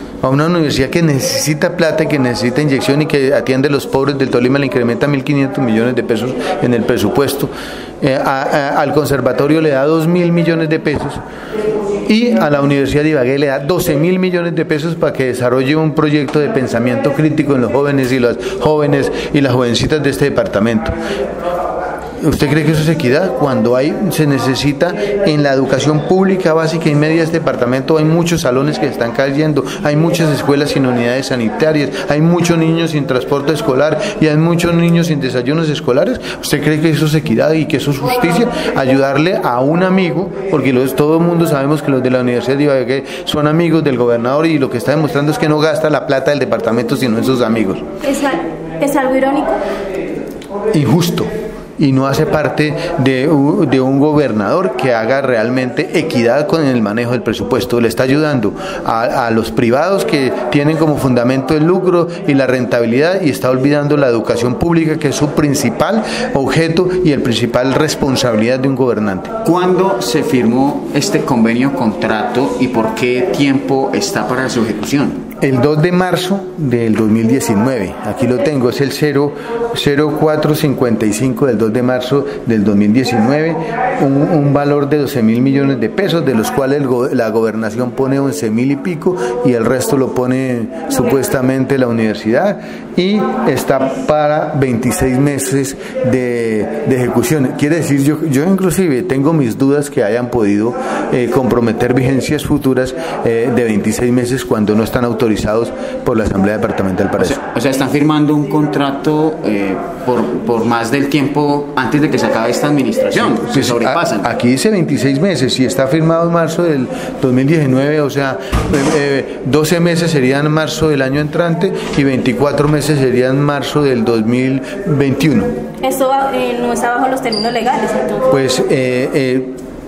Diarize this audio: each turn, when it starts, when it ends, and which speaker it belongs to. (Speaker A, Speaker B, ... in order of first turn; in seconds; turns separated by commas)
Speaker A: 0.2-11.2, Speaker A: 12.1-20.9, Speaker A: 22.2-47.9, Speaker B: 48.0-49.6, Speaker A: 50.7-69.4, Speaker C: 69.4-75.2, Speaker A: 75.4-107.4, Speaker C: 107.2-114.3, Speaker A: 113.2-125.5, Speaker B: 125.8-128.3, Speaker A: 128.3-129.5